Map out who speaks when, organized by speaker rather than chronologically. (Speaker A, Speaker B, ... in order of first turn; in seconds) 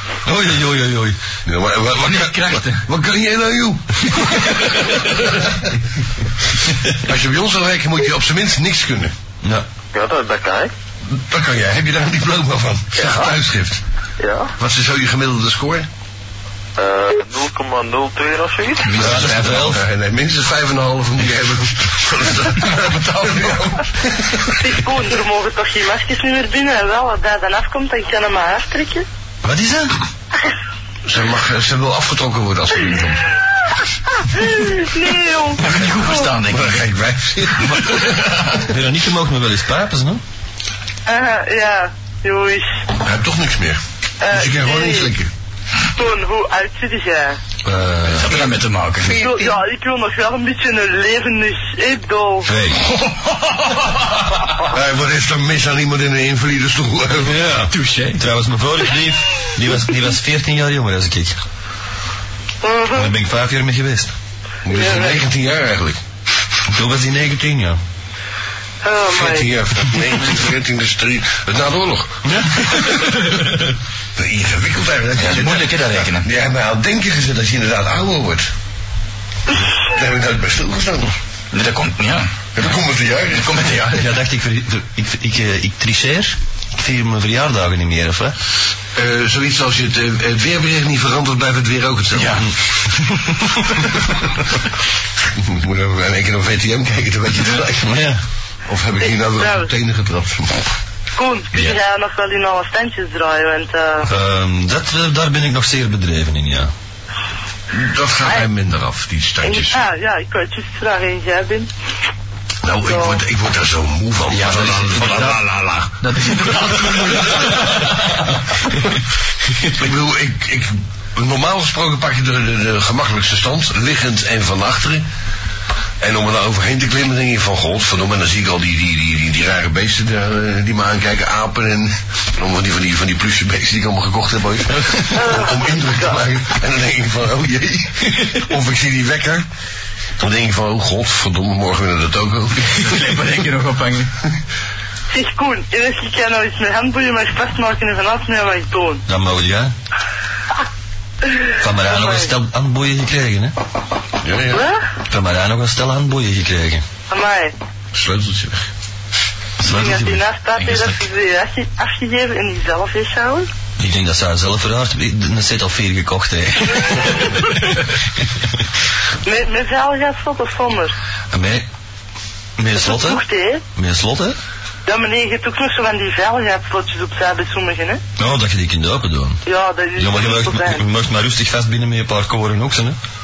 Speaker A: 0.2-1.2, 18.9-19.8, 29.4-29.9, 38.6-40.2, 47.6-48.5, 52.4-52.8, 57.3-61.4, 62.9-64.1, 66.7-67.8, 83.9-88.3, 97.8-98.2, 104.0-106.7, 149.1-149.7, 151.6-153.6, 155.1-156.8, 159.6-160.2, 163.8-167.3, 171.3-171.7, 172.6-173.2, 173.7-174.4, 178.2-179.4, 179.9-183.0
Speaker B: 1.4-5.4, 7.0-9.1, 11.1-13.8, 14.6-15.9, 19.0-24.6, 31.0-33.3, 36.5-38.6, 43.0-45.3, 54.6-57.4, 64.6-66.0, 69.1-73.2, 74.2-78.5, 79.8-81.1, 82.5-83.7, 88.9-92.4, 95.4-98.0, 98.7-100.6, 107.7-109.8, 112.6-115.9, 116.7-117.7, 119.8-125.0, 126.0-139.4, 140.2-143.0, 154.2-154.7, 157.9-158.6
Speaker C: 2.0-2.8, 18.8-19.8, 35.6-36.8, 48.1-49.5, 57.5-58.2, 75.2-76.3, 81.5-82.3, 83.3-84.1, 92.1-92.5, 114.3-115.4, 116.0-118.2, 142.7-144.1, 160.6-161.0
Speaker D: 9.9-10.7, 12.9-13.3, 14.2-14.5, 16.8-19.0
Speaker E: 24.6-29.1, 34.2-35.6, 41.0-42.8, 44.2-45.1, 45.9-47.4, 49.1-52.5, 62.6-63.1, 64.7-65.2, 68.8-69.5, 99.0-99.7, 101.2-104.1, 109.4-111.7, 112.8-113.2, 135.1-136.2, 145.1-149.0, 151.5-152.3, 154.5-154.8, 157.1-157.6, 159.6-163.5, 169.2-170.9, 172.8-173.6, 174.8-178.0, 179.4-180.8